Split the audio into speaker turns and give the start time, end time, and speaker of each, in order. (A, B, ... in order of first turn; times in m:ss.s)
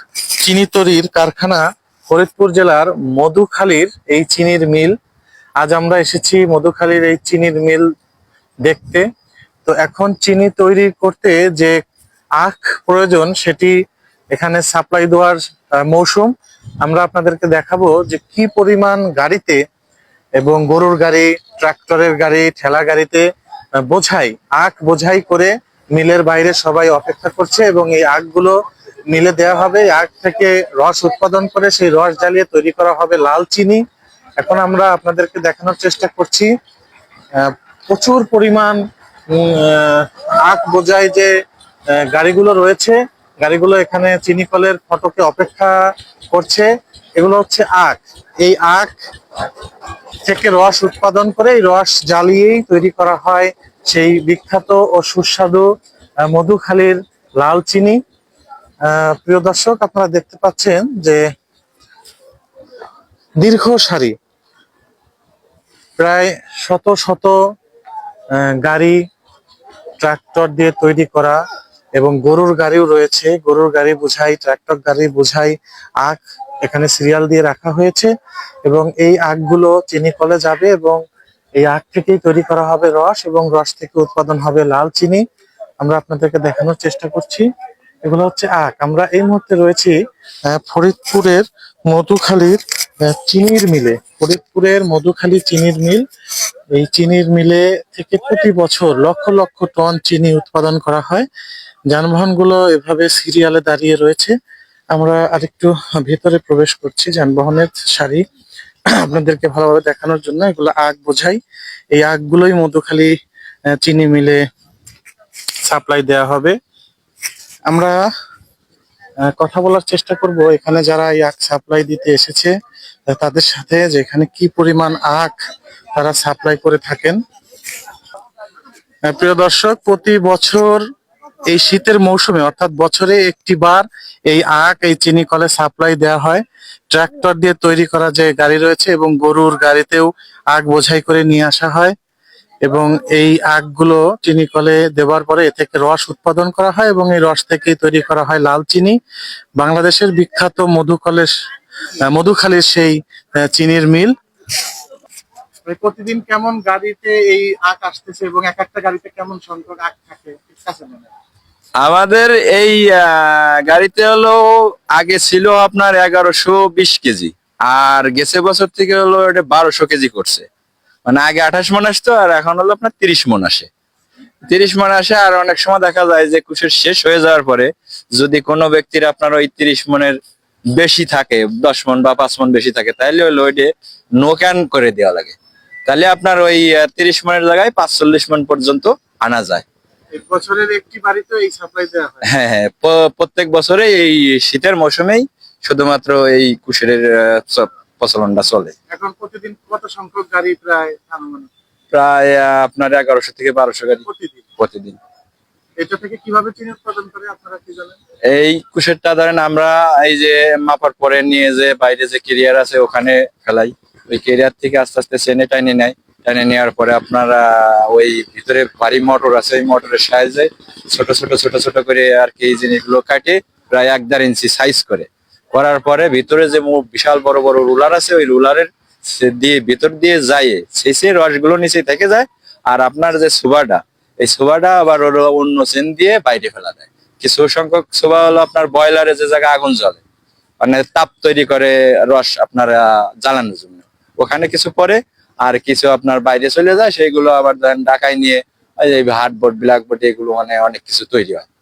0:00.4-0:04.9 A
0:05.6-0:07.8 A
0:08.6-0:09.0 A
0:09.6-0:11.8 A
0:12.4-0:13.7 A
0:14.3-0:16.3 A
0:16.8-0:19.6 A
0:20.4-0:23.2 A
0:23.8-0:28.6 A
0:29.1-0:33.8 A
0:34.4-0:36.5 A
0:37.4-0:41.3 A
0:42.0-0:45.8 A
0:46.3-0:48.9 A
0:50.2-0:55.7 A
0:56.2-0:58.0 A
0:58.8-1:01.2 A
1:03.4-1:04.2 A
1:06.0-1:07.4 A
1:08.4-1:09.0 A
1:10.0-1:11.4 A
1:12.0-1:18.1 A
1:18.6-1:21.0 A
1:21.6-1:25.2 A
1:25.8-1:27.5 A
1:28.0-1:29.9 A
1:30.5-1:36.0 A
1:36.7-1:41.3 A
1:41.9-1:44.3 A
1:44.9-1:48.2 A
1:49.0-1:51.4 A
1:51.9-1:53.1 A
1:53.8-1:54.4 A
1:55.6-1:56.6 A
1:57.7-1:58.0 A
1:59.3-2:02.5 A
2:03.1-2:05.3 A
2:06.0-2:07.2 A
2:09.1-2:10.8 A
2:11.5-2:21.9 A
2:22.6-2:29.0 A
2:29.6-2:31.3 A
2:32.1-2:34.1 A
2:35.6-2:41.1 A
2:41.8-2:44.4 B
2:44.9-2:50.4 B
2:51.0-2:53.7 B
2:54.5-3:00.2 B
3:00.8-3:05.4 B
3:05.9-3:09.6 B
3:10.1-3:12.2 A
3:12.2-3:18.7 B
3:18.9-3:21.5 A
3:21.9-3:24.0 B
3:24.0-3:24.4 A
3:24.6-3:25.0 B
3:25.8-3:28.0 A
3:28.3-4:00.0 B
4:00.6-4:11.4 B